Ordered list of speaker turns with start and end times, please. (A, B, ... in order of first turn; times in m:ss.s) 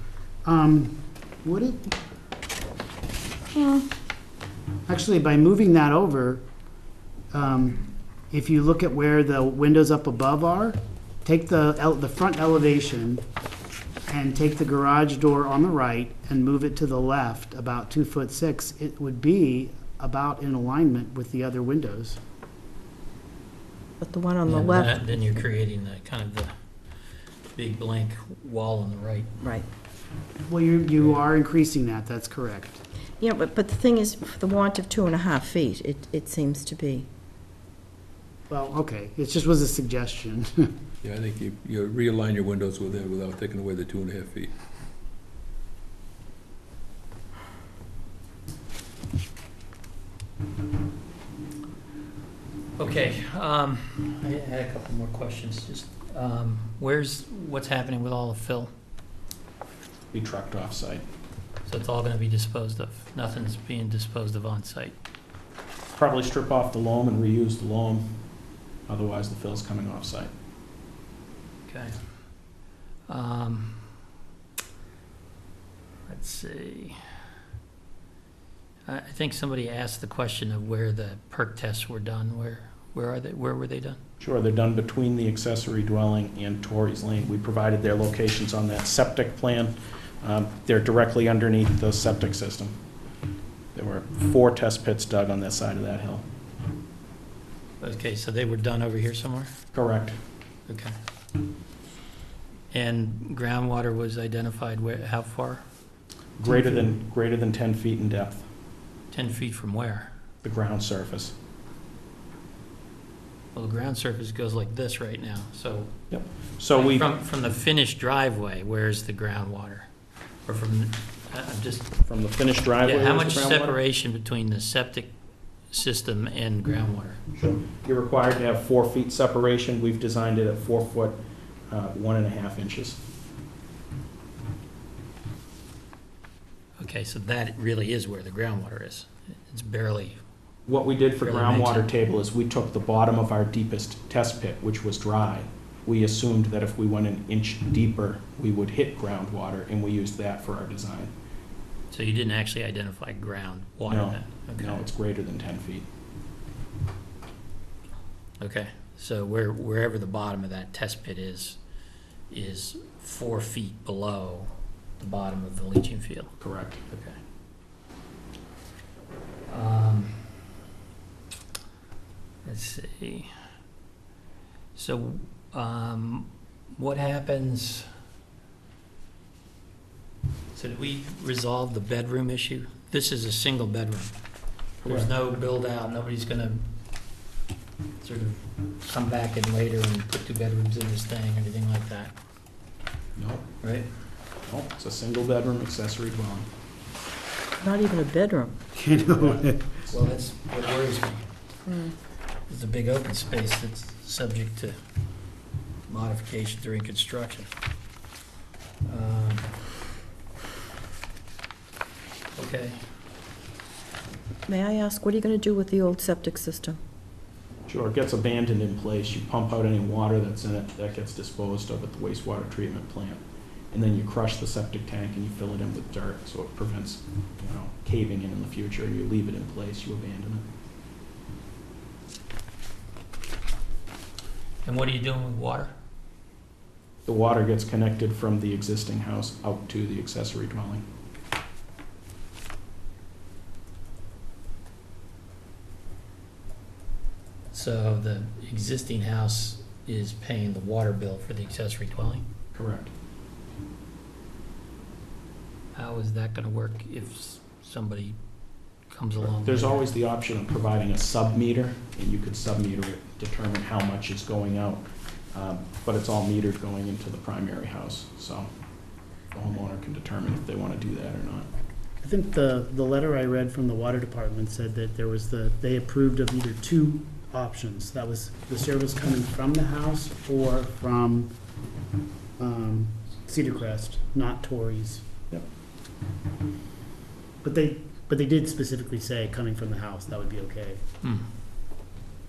0:00.4-0:01.9 A
0:03.6-0:03.9 B
0:04.9-0:06.4 A
0:07.3-0:13.2 A
0:14.1-0:22.2 A
0:24.0-0:24.9 B
0:24.5-0:26.5 C
0:27.5-0:29.3 C
0:30.5-0:32.8 A
0:33.2-0:37.1 B
0:38.5-0:40.7 A
0:41.0-0:44.5 D
0:52.8-0:58.7 C
1:00.1-1:01.0 E
1:01.7-1:05.0 C
1:05.9-1:08.1 E
1:08.9-1:10.3 E
1:11.7-1:12.0 C
1:13.1-1:14.0 C
1:16.1-1:17.3 C
1:18.9-1:24.0 C
1:24.2-1:32.8 E
1:33.8-1:36.2 E
1:37.8-1:39.5 C
1:39.7-1:40.2 E
1:40.7-1:41.0 C
1:42.7-1:45.6 C
1:46.4-1:48.5 E
1:46.5-1:46.8 A
1:49.1-1:50.1 C
1:50.4-1:51.3 E
1:53.5-1:55.9 C
1:56.1-1:57.1 E
1:56.7-1:59.9 C
2:00.5-2:02.0 C
2:02.0-2:03.8 E
2:02.8-2:05.1 C
2:05.7-2:07.2 C
2:07.3-2:11.2 E
2:11.7-2:13.0 E
2:16.8-2:20.2 C
2:20.7-2:31.1 E
2:21.2-2:21.9 C
2:31.9-2:34.9 C
2:33.9-2:35.9 E
2:38.4-2:41.6 C
2:42.3-2:46.3 C
2:46.4-2:46.8 E
2:46.9-2:47.2 C
2:49.5-2:50.3 C
2:52.4-2:53.4 C
2:54.8-2:57.9 C
3:00.5-3:04.1 C
3:04.8-3:05.1 E
3:04.9-3:06.6 C
3:08.0-3:12.1 C
3:13.2-3:13.5 E
3:13.6-3:13.9 C
3:14.4-3:16.5 E
3:17.6-3:18.6 B
3:18.7-3:19.6 A
3:19.9-3:21.3 C
3:21.7-3:22.0 B
3:22.5-3:24.8 C
3:25.9-3:27.5 C
3:28.8-3:29.5 C
3:32.4-3:32.8 C
3:34.5-3:36.8 B
3:37.7-3:43.2 E
3:43.7-3:50.4 E
3:54.6-3:55.7 C
3:57.0-4:00.8 E
4:07.5-4:12.2 C
4:12.5-4:12.9 E
4:15.8-4:18.2 C
4:18.9-4:19.9 C
4:19.2-4:28.5 E
4:29.3-4:31.5 E
4:32.0-4:41.3 A
4:42.4-4:45.1 A
4:47.4-4:50.8 A